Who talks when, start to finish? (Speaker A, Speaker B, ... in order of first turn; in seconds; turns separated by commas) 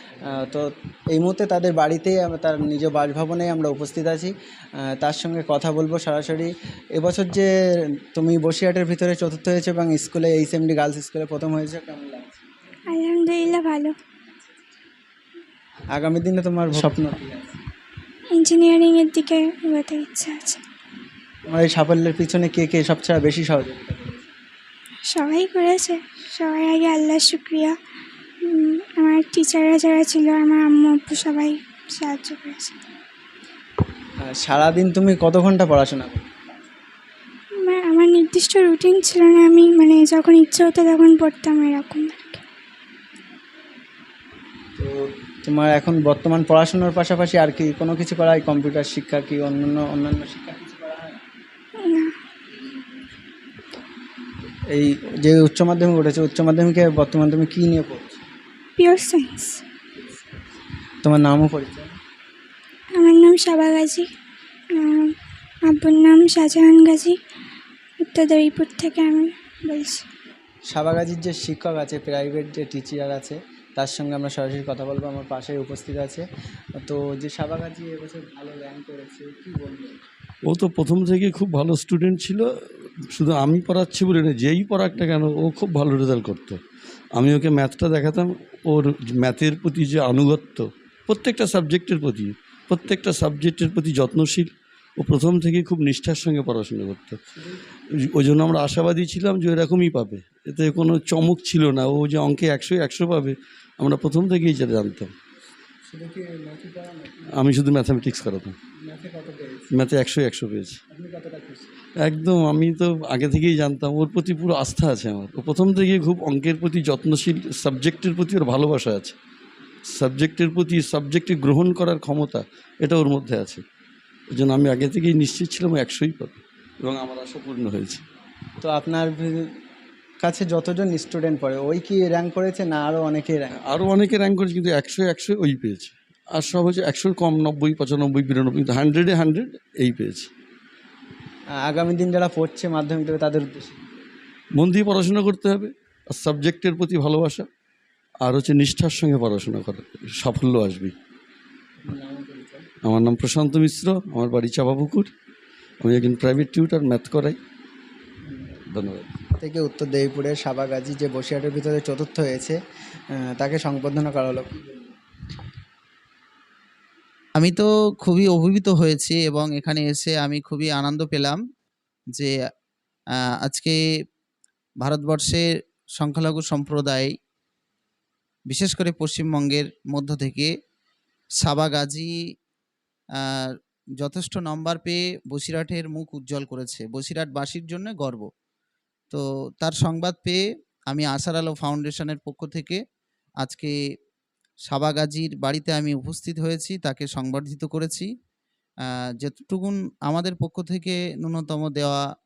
Speaker A: 0.2-7.5, Speaker A: 8.0-12.6, Speaker B: 12.9-13.9, Speaker A: 15.9-17.6, Speaker B: 18.4-20.6, Speaker A: 21.5-24.3, Speaker B: 25.1-27.8, Speaker B: 28.4-32.8, Speaker A: 34.2-36.3, Speaker B: 37.6-42.4, Speaker A: 44.8-51.2, Speaker B: 51.8-52.1, Speaker A: 54.7-58.2, Speaker B: 58.8-59.6, Speaker A: 61.0-61.9, Speaker B: 63.0-64.1, Speaker B: 64.7-65.2, Speaker B: 65.7-67.2, Speaker B: 68.0-70.0, Speaker A: 70.7-80.0, Speaker C: 80.5-82.5, Speaker C: 83.1-86.6, Speaker C: 87.2-97.2, Speaker C: 98.1-105.1, Speaker A: 105.9-107.3, Speaker C: 107.4-108.6, Speaker A: 108.8-109.7, Speaker C: 109.7-110.8, Speaker A: 110.9-111.7, Speaker C: 112.0-119.2, Speaker C: 120.0-123.6, Speaker C: 124.3-128.0, Speaker A: 128.6-129.5, Speaker A: 130.2-133.5, Speaker C: 133.6-140.3, Speaker A: 141.6-143.9, Speaker C: 144.6-147.5, Speaker C: 148.2-150.9, Speaker A: 151.8-152.7, Speaker C: 152.8-155.1, Speaker C: 155.8-157.4, Speaker A: 158.3-158.5, Speaker C: 158.7-159.2, Speaker A: 159.4-162.6, Speaker A: 163.1-164.9, Speaker D: 167.4-171.4, Speaker D: 173.2-173.8, Speaker D: 174.8-175.5, Speaker D: 176.0-177.1, Speaker D: 178.5-180.5, Speaker D: 181.4-182.1, Speaker D: 183.2-188.3, Speaker D: 189.1-192.8, Speaker D: 193.4-193.8, Speaker D: 194.7-198.1, Speaker D: 198.8-202.0